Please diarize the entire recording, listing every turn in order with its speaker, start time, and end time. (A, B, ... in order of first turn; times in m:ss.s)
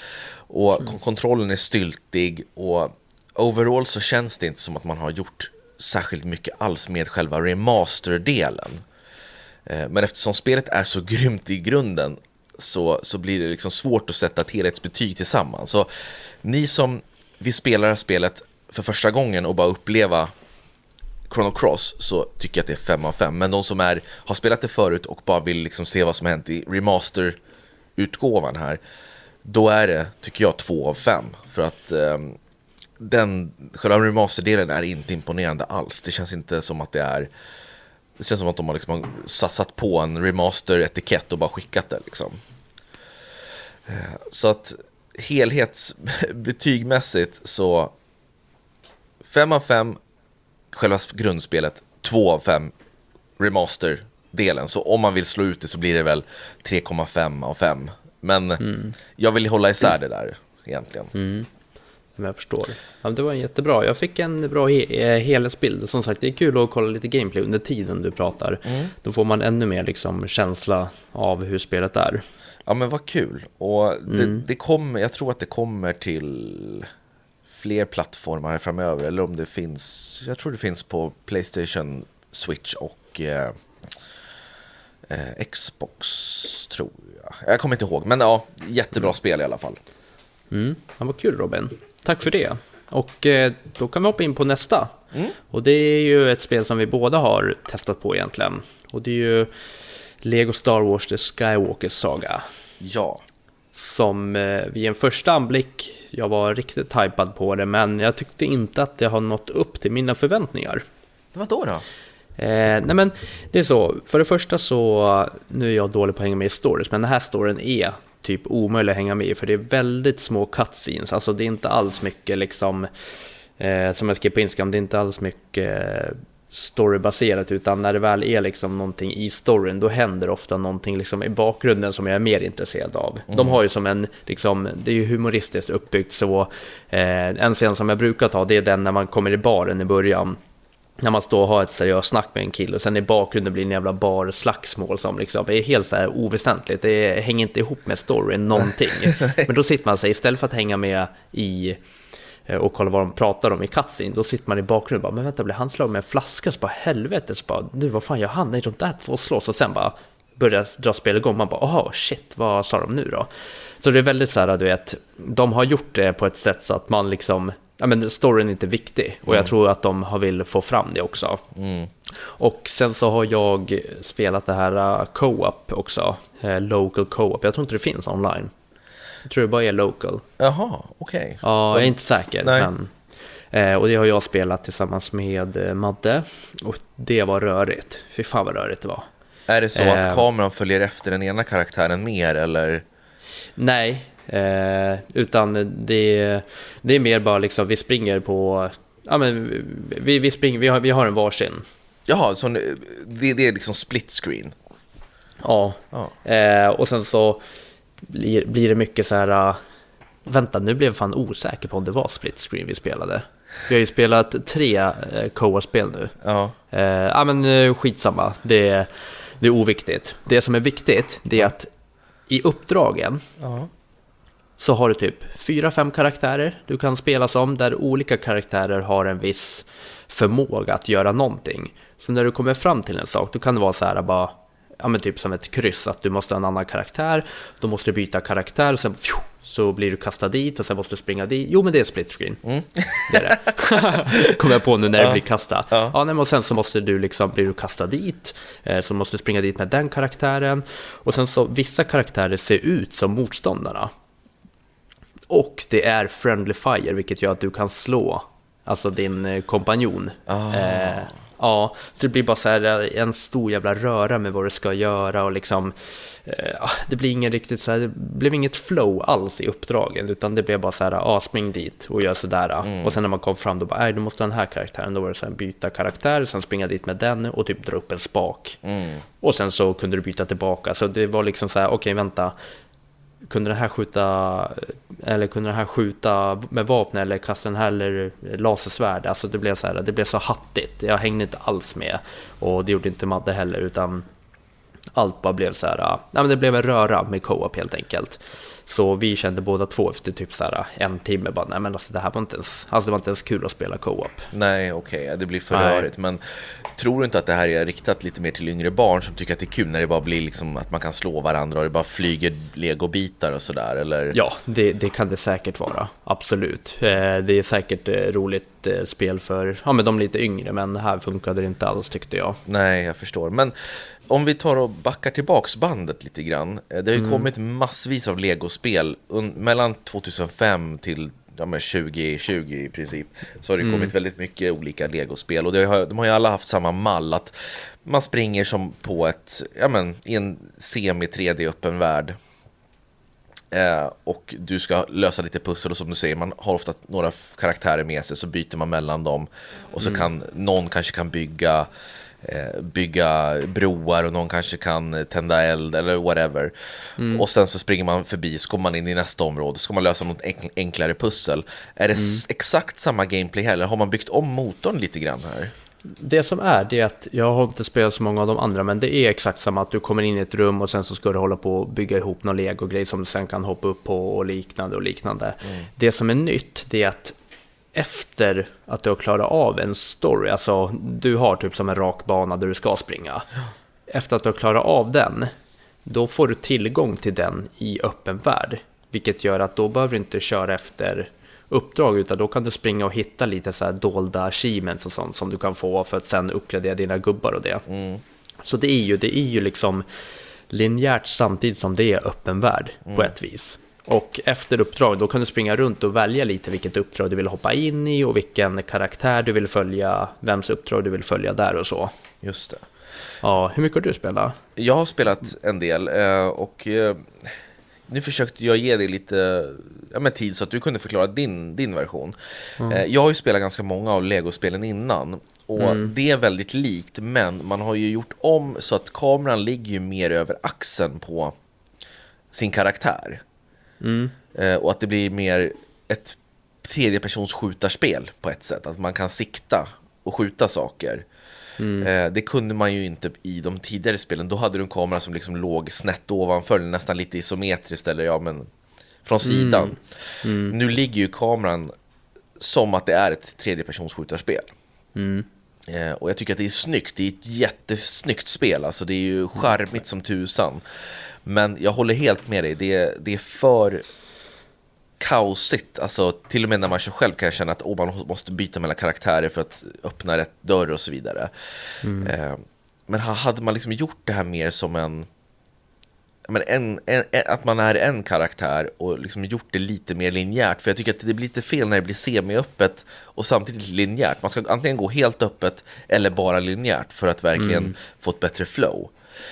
0:00.5-0:08.8 A
0:09.7-0:15.9 A
0:16.4-0:20.3 A
0:21.3-0:27.4 A
0:28.0-0:28.8 A
0:29.4-0:32.4 A
0:33.0-0:37.3 A
0:38.2-0:42.4 A
0:43.9-0:47.9 A
0:49.2-0:50.0 A
0:50.7-0:52.7 A
0:53.4-0:58.6 A
0:58.6-0:59.0 B
0:59.2-1:01.1 A
1:01.1-1:01.5 B
1:02.2-1:12.2 B
1:08.7-1:08.9 A
1:12.7-1:16.9 A
1:14.1-1:14.4 B
1:17.5-1:23.6 A
1:25.1-1:29.8 A
1:30.5-1:35.0 B
1:35.5-1:39.5 B
1:40.2-1:42.4 B
1:42.8-1:43.2 A
1:43.7-1:50.8 B
1:51.3-1:51.8 A
1:52.4-2:02.9 B
2:03.6-2:20.4 B
2:13.3-2:13.6 A
2:21.0-2:31.8 B
2:29.1-2:29.4 A
2:32.5-2:43.3 B
2:43.8-2:51.4 B
2:49.3-2:49.5 A
2:51.6-2:51.9 A
2:52.2-2:58.5 B
2:59.2-3:00.2 B
3:00.4-3:02.7 A
3:01.4-3:02.9 B
3:03.5-3:09.1 B
3:09.5-3:12.8 A
3:09.8-3:10.3 B
3:13.6-3:21.6 B
3:22.1-3:24.5 A
3:25.4-3:27.4 B
3:28.0-3:29.6 B
3:30.3-3:36.1 B
3:36.2-3:36.6 A
3:36.7-3:38.9 B
3:39.4-3:41.7 B
3:42.3-3:43.2 B
3:43.4-3:43.7 A
3:44.6-4:02.4 B
4:02.4-4:04.4 A
4:03.1-4:13.9 B
4:05.0-4:06.0 A
4:15.3-4:25.7 B
4:20.3-4:21.1 A
4:26.2-4:38.6 B
4:32.6-4:33.0 A
4:38.6-4:39.0 A
4:39.2-4:42.3 B
4:43.3-4:54.0 B
4:55.0-5:04.3 B
5:04.3-5:14.2 A
5:05.5-5:05.9 B
5:14.1-5:22.4 B
5:22.5-5:42.2 A
5:27.0-5:27.3 B
5:33.6-5:33.9 B
5:43.5-5:51.7 A
5:49.8-5:50.1 B
5:52.2-5:56.5 A
5:57.0-5:57.3 B
5:57.1-6:05.5 A
6:02.0-6:02.2 B
6:06.0-6:17.2 B
6:17.7-6:23.3 B
6:23.9-6:25.3 B
6:25.9-6:37.7 B
6:37.7-6:38.0 A
6:38.4-6:39.8 B
6:40.5-6:51.9 B
6:42.9-6:43.1 A
6:52.2-6:52.7 A
6:53.2-6:54.4 B
6:54.6-6:57.4 A
6:57.9-7:11.4 A
7:05.6-7:05.9 B
7:12.3-7:13.2 A
7:13.8-7:14.1 B
7:14.3-7:21.1 A
7:21.6-7:21.9 B
7:21.8-7:28.5 A
7:29.0-7:29.8 A
7:29.2-7:30.6 B
7:30.5-7:31.7 A
7:32.4-7:34.5 A
7:35.0-7:35.3 B
7:35.7-7:40.6 A
7:41.2-7:43.8 A
7:45.0-7:51.3 A
7:51.8-7:52.2 B
7:52.0-7:55.1 A
7:56.3-8:08.9 A
8:07.4-8:07.8 B